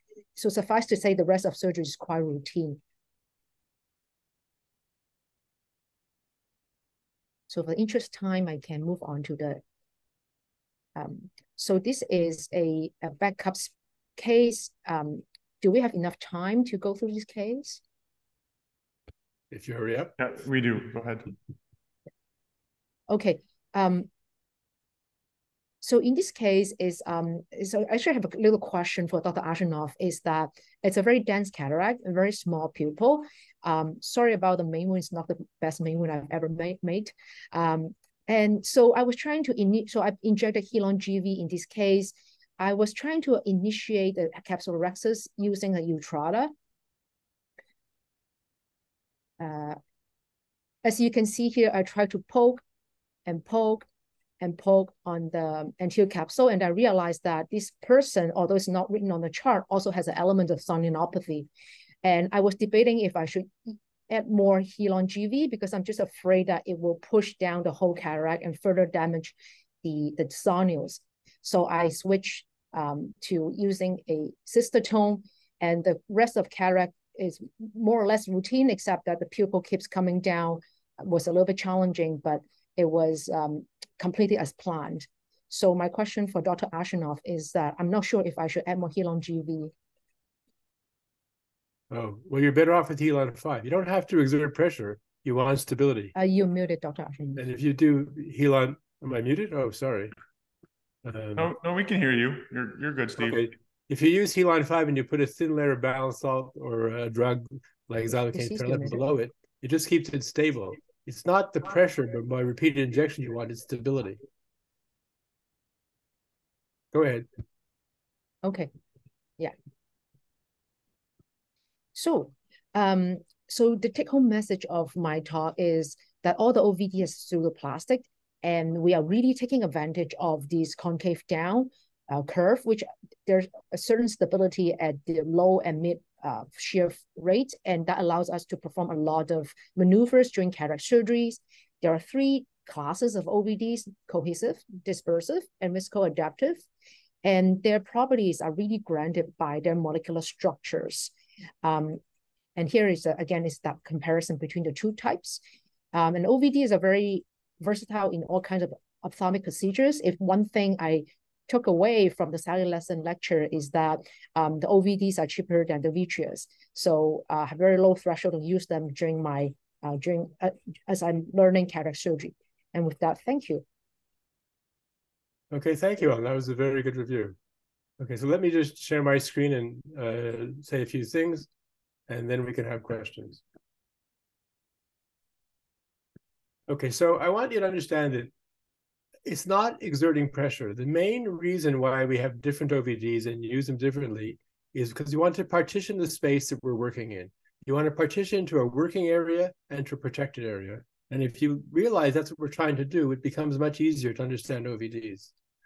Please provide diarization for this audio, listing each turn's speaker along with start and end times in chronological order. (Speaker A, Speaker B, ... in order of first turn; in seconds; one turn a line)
Speaker A: 0.3-2.8
Speaker A: 7.5-9.6
Speaker A: 10.9-17.8
Speaker B: 19.5-20.2
Speaker C: 20.2-21.3
Speaker A: 23.1-24.1
Speaker A: 25.8-46.5
Speaker A: 49.4-49.8
Speaker A: 50.8-52.6
Speaker A: 53.2-53.9
Speaker A: 54.4-61.5
Speaker A: 62.0-89.7
Speaker B: 91.9-96.1
Speaker A: 96.1-97.4
Speaker B: 97.3-100.1
Speaker B: 101.0-101.5
Speaker C: 101.3-103.5
Speaker B: 103.2-114.2
Speaker A: 108.3-109.0
Speaker B: 116.9-117.3
Speaker A: 118.4-118.7
Speaker A: 121.9-146.6
Speaker A: 147.2-151.1
Speaker A: 151.6-152.0
Speaker A: 152.6-155.4
Speaker A: 155.9-173.6
Speaker B: 175.5-177.3
Speaker B: 178.0-181.5
Speaker B: 182.1-183.4
Speaker B: 186.7-188.3
Speaker B: 189.2-205.3